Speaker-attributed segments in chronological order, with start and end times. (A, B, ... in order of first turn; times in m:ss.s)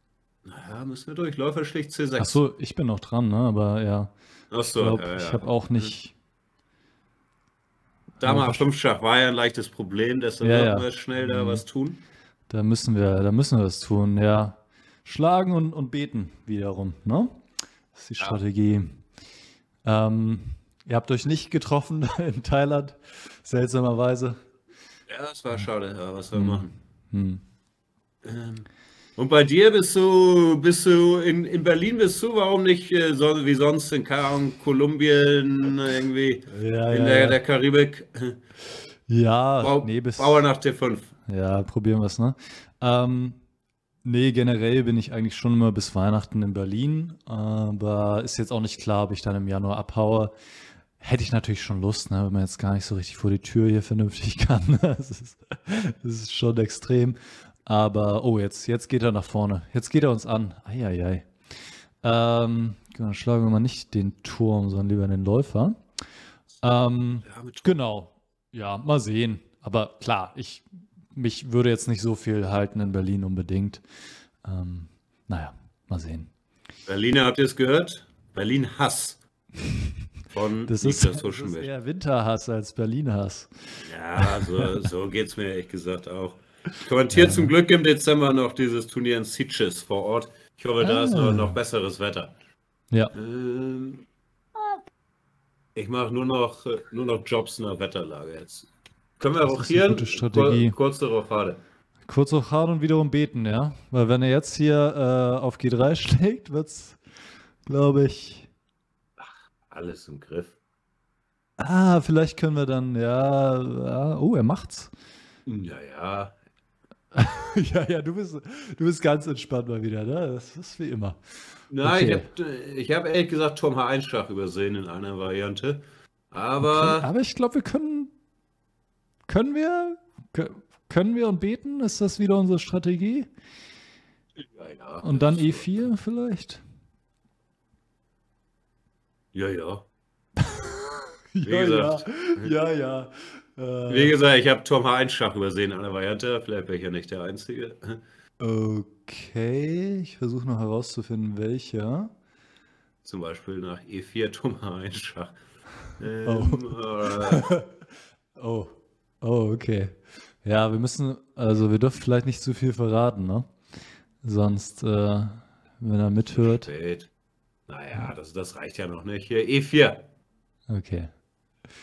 0:00.4-0:02.4 A
0:02.2-0:04.1 B
0:04.5-0:05.9 A
0:04.7-0:06.1 B
0:08.2-0:08.7 B
0:08.2-0:12.0 A
0:10.4-0:11.6 B
0:12.5-0:17.4 B
0:17.9-0:19.0 B
0:19.8-0:24.4 B
0:25.1-0:26.7 A
0:26.3-0:27.4 B
0:28.2-0:38.4 A
0:36.5-0:37.4 B
0:39.1-0:40.4 B
0:39.6-0:41.1 A
0:41.3-0:43.4 B
0:44.0-0:50.3 B
0:51.0-1:01.3 B
1:02.0-1:05.8 B
1:06.6-1:13.8 B
1:07.2-1:07.8 A
1:14.4-1:16.3 B
1:16.9-1:19.2 A
1:20.3-1:21.7 A
1:20.6-1:24.7 B
1:23.8-1:32.3 A
1:27.1-1:27.5 B
1:30.8-1:31.6 B
1:33.1-1:34.0 A
1:35.7-1:38.7 A
1:39.2-1:41.6 A
1:39.4-1:40.8 B
1:42.1-1:47.0 B
1:47.6-1:48.5 B
1:49.2-1:50.6 A
1:51.6-1:54.9 B
1:55.4-1:56.3 A
1:57.1-2:01.2 B
2:01.7-2:07.1 A
2:01.8-2:02.3 B
2:06.6-2:08.1 B
2:09.3-2:13.3 B
2:14.4-2:15.7 A
2:15.0-2:16.6 B
2:19.3-2:19.8 A
2:20.4-2:24.1 B
2:21.4-2:22.5 A
2:23.9-2:28.0 A
2:28.4-2:32.1 B
2:33.0-2:35.3 A
2:36.0-2:37.5 A
2:36.2-2:37.7 B
2:38.4-2:43.5 B
2:44.2-2:46.7 B
2:46.4-2:47.1 A
2:47.7-2:50.0 A
2:50.7-2:51.1 B